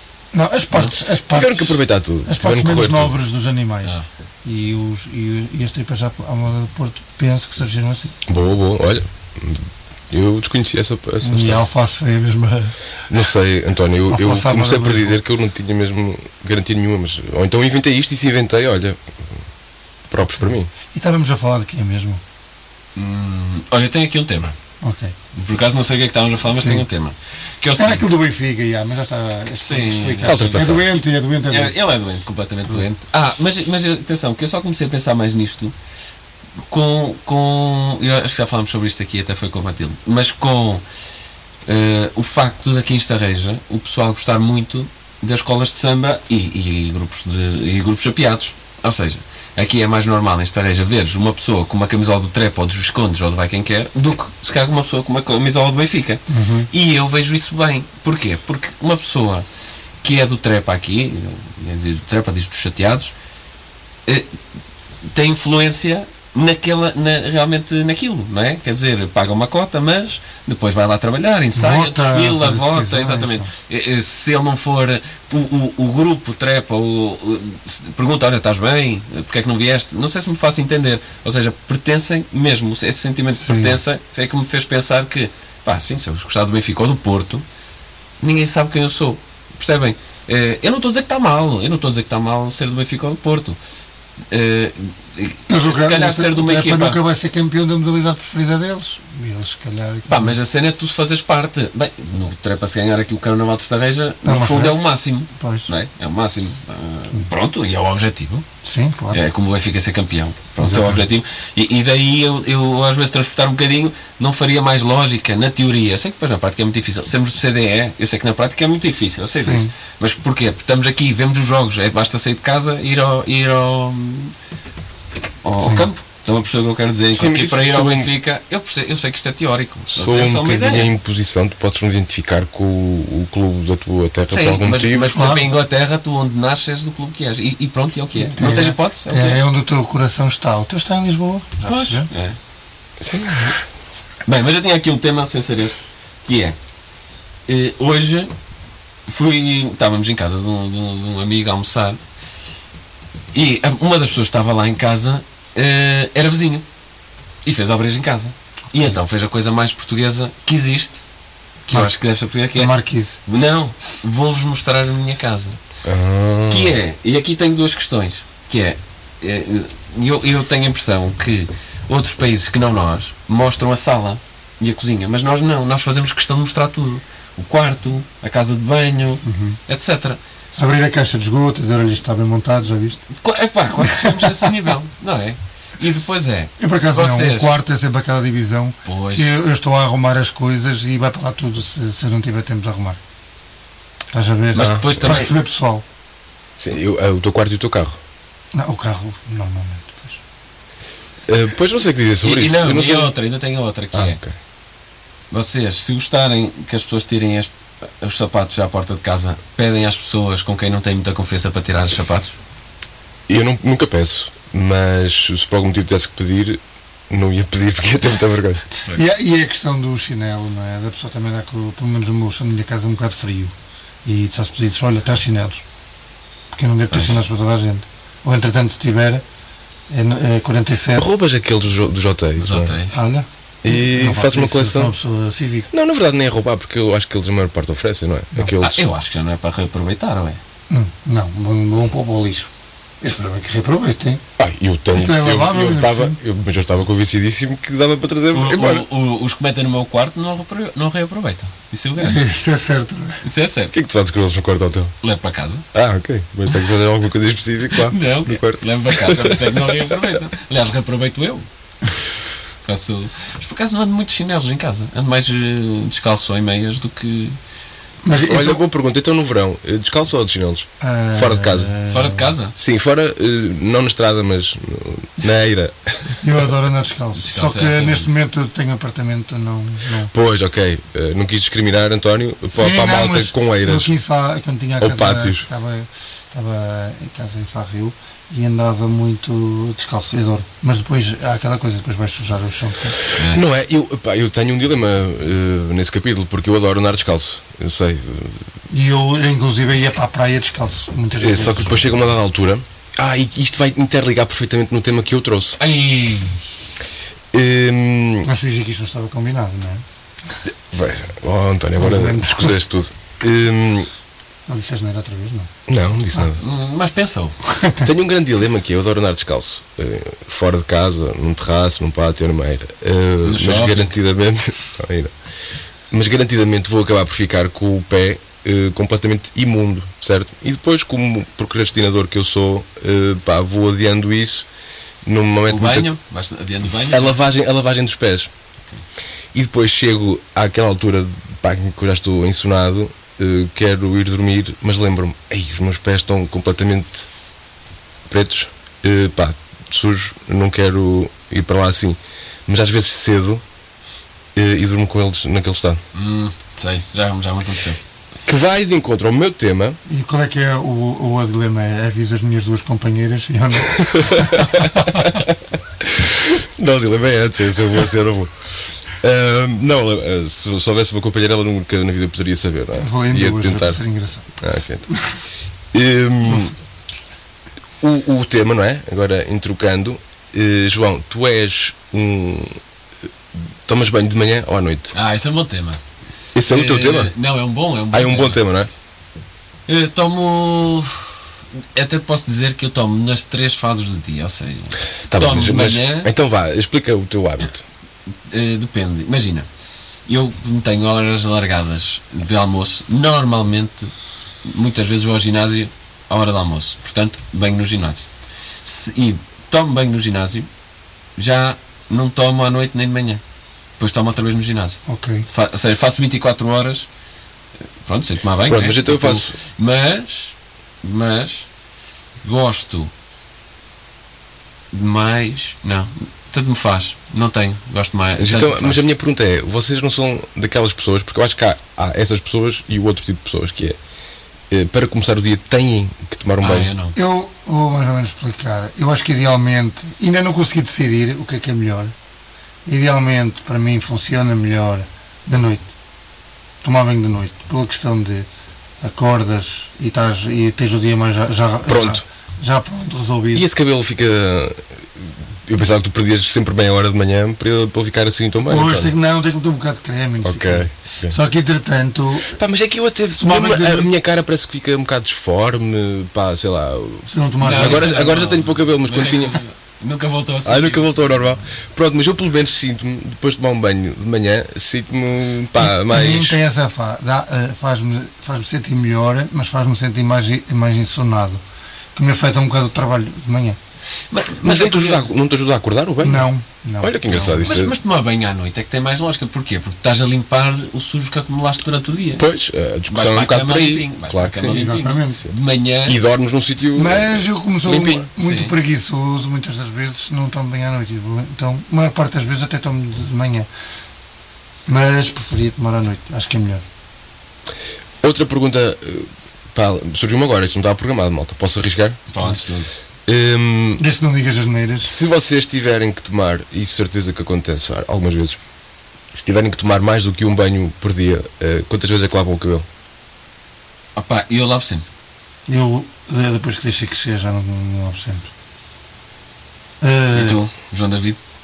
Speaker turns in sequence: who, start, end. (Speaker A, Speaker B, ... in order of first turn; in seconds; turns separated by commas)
Speaker A: 0.3-8.1, Speaker B: 1.3-3.1, Speaker B: 8.3-11.7, Speaker A: 11.2-12.7, Speaker B: 13.1-19.4, Speaker A: 14.1-15.2, Speaker B: 20.1-20.7, Speaker A: 20.4-22.2, Speaker C: 22.9-24.5, Speaker A: 24.8-25.1, Speaker C: 25.3-28.0, Speaker A: 26.5-26.8, Speaker A: 27.7-31.7, Speaker C: 29.6-35.7, Speaker B: 30.2-30.9, Speaker C: 36.7-40.8, Speaker C: 41.6-59.5, Speaker A: 56.3-56.7, Speaker C: 60.0-63.1, Speaker C: 64.0-64.3, Speaker C: 65.0-87.4, Speaker A: 71.5-73.5, Speaker A: 83.4-83.8, Speaker C: 88.2-93.6, Speaker C: 94.3-97.0, Speaker A: 95.5-100.3, Speaker C: 100.1-108.4, Speaker A: 104.2-105.7, Speaker A: 108.6-109.2, Speaker C: 109.1-124.3, Speaker A: 110.6-111.0, Speaker A: 119.4-119.7, Speaker C: 125.4-130.9, Speaker A: 125.6-125.9, Speaker B: 127.1-128.1, Speaker B: 129.9-135.1, Speaker C: 134.3-139.4, Speaker A: 135.0-135.5, Speaker A: 138.2-142.1, Speaker C: 141.6-142.4, Speaker B: 143.0-143.7, Speaker C: 144.2-146.6, Speaker C: 147.5-148.3, Speaker C: 149.1-152.0, Speaker C: 153.3-156.6, Speaker C: 157.4-161.0, Speaker C: 161.7-162.7, Speaker A: 162.5-163.2, Speaker C: 163.2-165.6, Speaker B: 165.8-166.8, Speaker C: 166.5-180.2, Speaker A: 179.2-179.6, Speaker A: 180.5-183.1, Speaker C: 183.1-187.5, Speaker A: 183.8-184.5, Speaker A: 186.6-193.0, Speaker C: 188.8-189.3, Speaker A: 194.1-195.8, Speaker C: 194.5-195.3, Speaker B: 194.6-195.2, Speaker B: 196.6-198.0, Speaker A: 198.5-200.2, Speaker B: 201.3-203.1, Speaker C: 202.2-204.2, Speaker B: 203.9-204.3, Speaker C: 205.3-212.3, Speaker B: 213.3-218.7, Speaker A: 218.9-223.5, Speaker A: 224.0-225.6, Speaker A: 226.5-229.2, Speaker C: 226.9-227.2, Speaker A: 229.9-231.1, Speaker B: 230.9-232.8, Speaker C: 232.4-232.9, Speaker A: 232.9-235.7, Speaker B: 233.6-234.9, Speaker B: 235.7-238.8, Speaker C: 238.6-240.4, Speaker A: 240.7-244.2, Speaker B: 244.4-248.8, Speaker A: 244.9-246.2, Speaker C: 248.3-252.2, Speaker A: 252.0-253.2, Speaker C: 253.2-253.7, Speaker B: 253.7-254.9, Speaker C: 255.0-255.6, Speaker B: 255.7-259.9, Speaker C: 257.8-261.5, Speaker C: 262.6-267.4, Speaker A: 268.0-268.6, Speaker B: 268.1-271.7, Speaker A: 270.8-272.3, Speaker C: 271.9-272.5, Speaker B: 272.6-276.3, Speaker A: 276.2-280.1, Speaker C: 277.2-278.1, Speaker B: 280.1-283.9, Speaker A: 282.5-293.0, Speaker B: 284.8-285.4, Speaker C: 293.1-293.4, Speaker B: 293.2-298.4, Speaker A: 298.7-302.0, Speaker B: 301.2-305.6, Speaker C: 305.6-306.4, Speaker B: 307.3-308.3, Speaker A: 308.2-309.8, Speaker B: 310.7-313.9, Speaker A: 311.8-312.6, Speaker A: 314.5-315.5, Speaker B: 315.7-316.4, Speaker C: 316.4-317.4, Speaker A: 317.5-317.9, Speaker B: 317.8-325.1, Speaker C: 323.2-323.9, Speaker B: 325.9-334.4, Speaker B: 335.0-335.9, Speaker C: 335.5-337.1, Speaker B: 336.9-338.3, Speaker B: 339.3-347.1, Speaker B: 348.1-353.4, Speaker B: 354.4-355.8, Speaker C: 355.9-357.8, Speaker B: 358.3-359.8, Speaker A: 359.9-364.5, Speaker B: 363.7-373.8, Speaker A: 372.7-374.3, Speaker B: 374.4-374.9, Speaker B: 375.7-376.5, Speaker A: 376.2-376.5, Speaker B: 377.8-382.6, Speaker B: 383.6-384.9, Speaker C: 384.9-385.8, Speaker B: 386.3-387.1, Speaker C: 386.5-388.4, Speaker B: 387.9-388.7, Speaker C: 389.7-391.2, Speaker C: 391.7-396.1, Speaker B: 395.1-397.6, Speaker C: 398.2-399.5, Speaker C: 400.1-403.9, Speaker C: 404.4-408.1, Speaker C: 408.6-410.5, Speaker C: 411.2-413.2, Speaker C: 413.8-416.9, Speaker A: 414.9-415.2, Speaker C: 417.8-421.5, Speaker B: 418.5-419.3, Speaker C: 422.2-422.9, Speaker C: 424.7-428.8, Speaker B: 428.2-433.8, Speaker B: 434.5-436.7, Speaker C: 436.4-436.9, Speaker A: 436.9-441.9, Speaker A: 442.6-445.7, Speaker A: 446.6-448.3, Speaker A: 448.8-453.4, Speaker B: 451.7-452.0, Speaker B: 453.3-458.9, Speaker A: 458.4-462.4, Speaker B: 460.2-461.1, Speaker B: 462.3-469.4, Speaker A: 463.1-463.9, Speaker A: 467.1-467.9, Speaker C: 467.4-471.3, Speaker B: 470.4-476.4, Speaker A: 475.6-481.4, Speaker A: 481.9-483.6, Speaker C: 484.1-485.1, Speaker B: 484.3-486.3, Speaker A: 486.0-487.3, Speaker B: 486.8-487.7, Speaker C: 487.1-492.2, Speaker B: 492.2-494.6, Speaker C: 492.9-496.0, Speaker A: 494.4-495.2, Speaker B: 495.9-498.1, Speaker A: 496.7-503.5, Speaker C: 498.2-498.5, Speaker A: 504.7-506.6, Speaker B: 508.0-512.0, Speaker C: 512.1-512.7, Speaker B: 513.1-513.8, Speaker A: 513.8-514.9, Speaker B: 514.8-518.4, Speaker B: 519.1-522.6, Speaker C: 524.0-524.8, Speaker A: 525.5-528.3, Speaker A: 529.8-530.4, Speaker C: 530.1-531.2